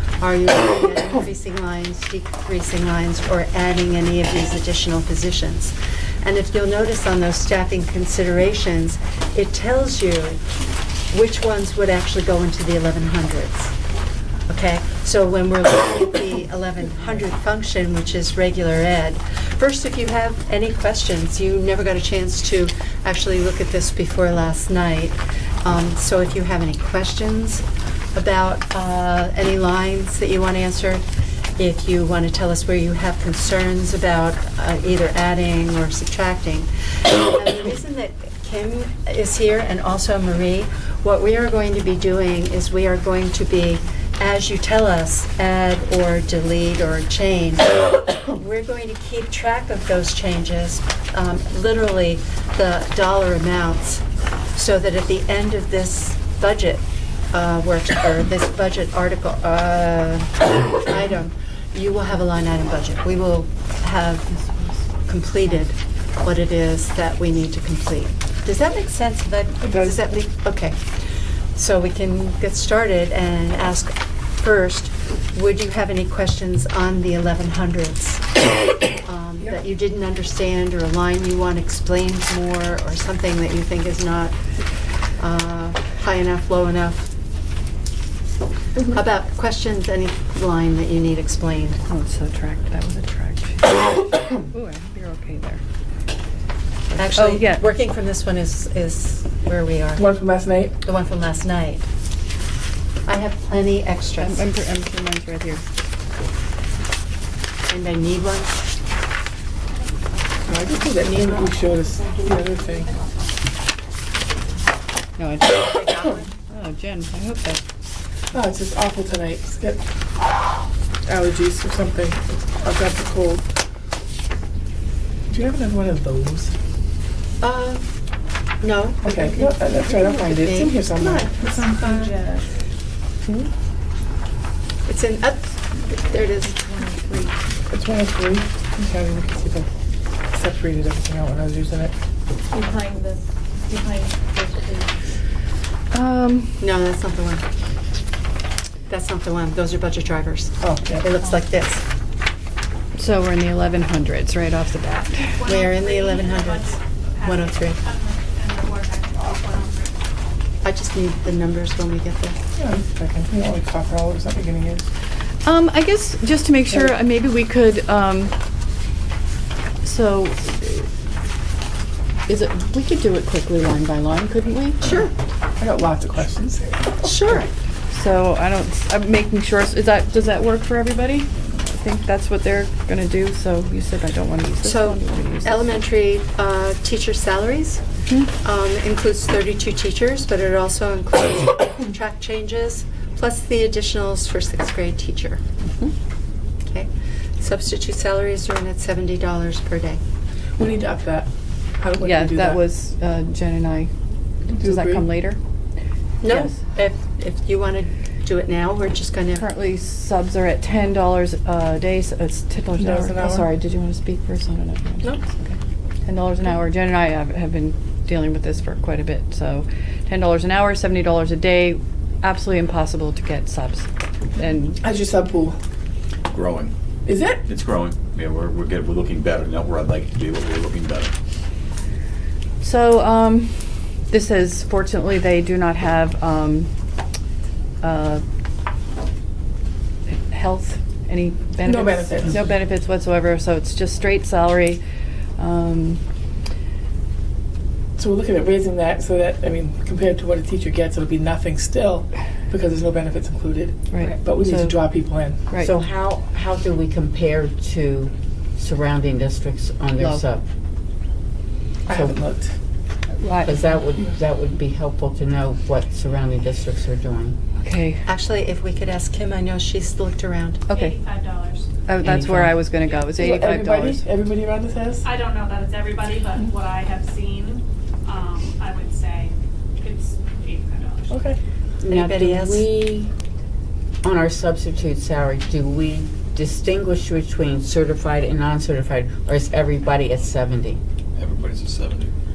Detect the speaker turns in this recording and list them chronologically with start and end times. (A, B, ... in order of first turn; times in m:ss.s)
0:00.2-0:10.4 A
0:11.1-0:13.8 A
0:14.5-0:31.0 A
0:31.6-1:04.4 A
1:05.1-1:10.8 A
1:09.6-1:10.0 B
1:11.6-1:18.4 A
1:19.0-1:24.4 A
1:25.2-1:27.1 A
1:28.9-1:31.8 A
1:31.9-1:35.6 C
1:36.9-1:37.7 C
1:37.0-1:40.0 A
1:40.0-1:40.8 B
1:40.8-1:41.9 A
1:43.1-1:44.5 A
1:44.2-1:45.6 C
1:47.7-1:48.7 A
1:50.5-1:52.9 B
1:55.2-1:57.6 C
1:55.6-1:56.3 A
1:58.3-1:59.8 B
2:01.1-2:03.4 B
2:05.3-2:06.5 B
2:07.4-2:07.9 A
2:08.6-2:12.2 A
2:09.0-2:11.6 B
2:14.9-2:16.6 A
2:16.6-2:17.3 C
2:17.7-2:19.7 B
2:20.3-2:22.0 B
2:22.5-2:24.8 C
2:25.9-2:26.6 C
2:26.6-2:27.4 A
2:28.9-2:31.8 A
2:30.6-2:31.1 B
2:33.0-2:35.4 C
2:35.2-2:40.0 D
2:35.4-2:37.8 A
2:40.6-2:42.4 A
2:42.6-2:44.9 B
2:45.4-2:48.3 C
2:49.8-2:50.9 C
2:52.3-2:54.9 C
2:54.8-2:55.1 A
2:55.6-2:57.1 B
2:57.0-2:57.5 A
2:57.9-3:05.6 C
3:04.6-3:07.8 A
3:08.4-3:15.4 A
3:16.7-3:20.0 A
3:20.6-3:22.6 B
3:22.0-3:23.9 C
3:24.5-3:25.1 B
3:24.5-3:25.4 C
3:26.2-3:29.5 A
3:26.2-3:26.6 C
3:29.4-3:44.8 C
3:32.8-3:33.5 B
3:44.8-3:45.6 B
3:46.3-3:46.7 E
3:47.1-3:47.5 B
3:47.5-3:51.1 E
3:52.6-3:56.7 C
3:57.8-3:58.2 C
4:00.1-4:04.8 C
4:01.6-4:02.4 B
4:05.4-4:06.0 C
4:08.0-4:15.4 B
4:13.9-4:14.8 C
4:15.6-4:20.4 F
4:20.0-4:20.2 C
4:21.9-4:22.5 B
4:21.9-4:22.2 F
4:23.2-4:23.6 C
4:23.4-4:27.4 F
4:27.6-4:28.1 C
4:28.1-4:30.6 A
4:30.7-4:31.0 C
4:30.7-4:31.7 D
4:31.9-4:34.1 C
4:32.0-4:32.6 F
4:33.2-4:35.1 B
4:35.0-4:41.2 D
4:41.1-4:41.4 B
4:41.8-4:43.1 F
4:41.8-4:42.6 A
4:44.0-4:50.8 F
4:51.2-4:52.1 E